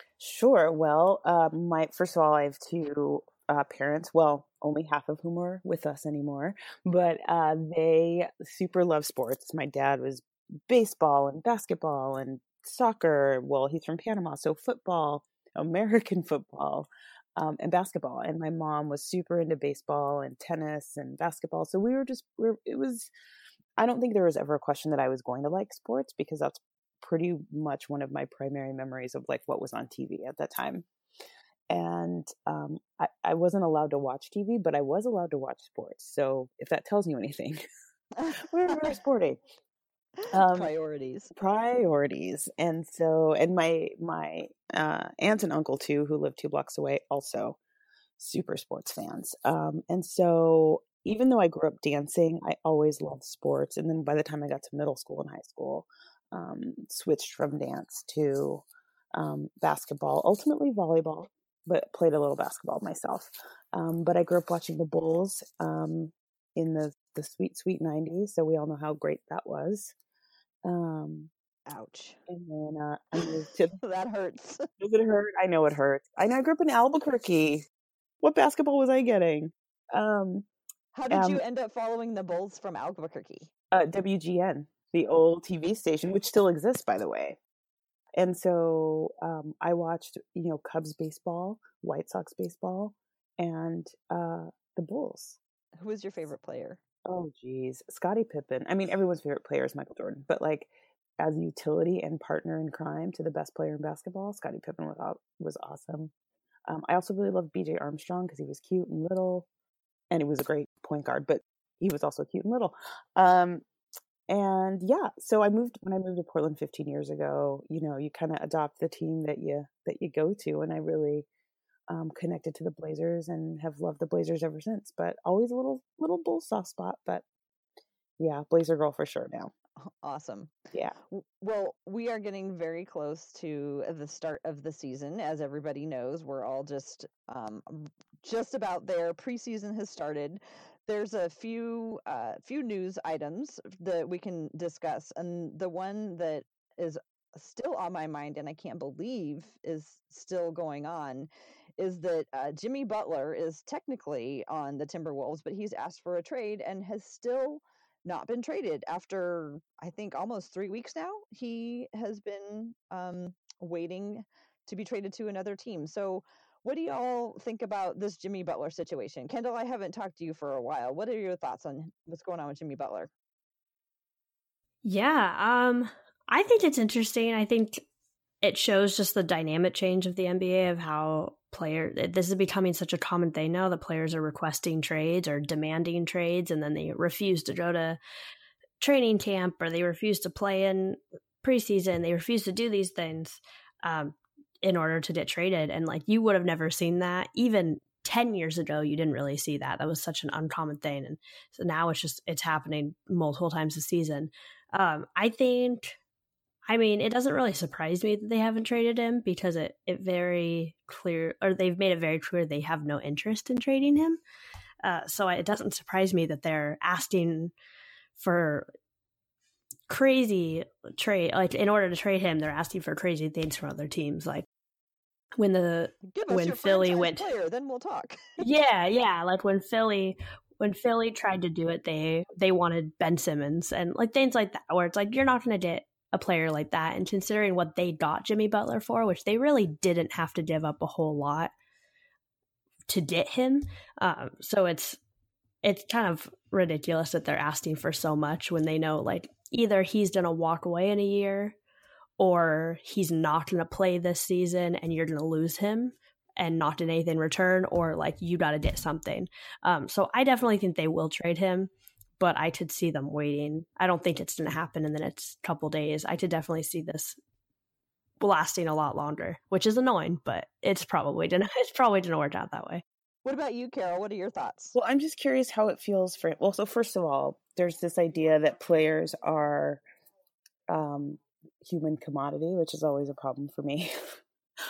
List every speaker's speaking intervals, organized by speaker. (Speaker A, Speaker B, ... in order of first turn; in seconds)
Speaker A: 0.2-23.1, 23.8-30.9, 31.7-37.6, 38.4-39.4, 40.3-40.7, 41.3-47.6, 48.2-69.9, 70.7-71.3, 72.3-73.8, 74.8-77.6, 78.2-80.5, 81.1-81.4, 83.7-87.4, 88.2-95.4, 97.0-106.1, 106.7-109.5, 110.1-113.6, 114.3-121.3, 121.9-127.2, 128.2-129.5, 274.8-279.8, 280.7-284.2
Speaker B: 38.2-39.0, 40.2-41.3, 71.7-72.2, 73.2-74.7, 80.9-83.5, 95.8-96.8, 129.8-130.6, 131.1-173.1, 226.1-228.4, 273.2-274.8
Speaker C: 174.8-177.8, 178.4-188.0, 188.8-205.9, 206.7-214.2, 214.8-217.5, 218.2-218.7, 219.9-224.4, 225.4-227.3, 228.4-241.5, 242.9-245.0, 245.6-251.6, 252.2-267.2, 268.2-272.8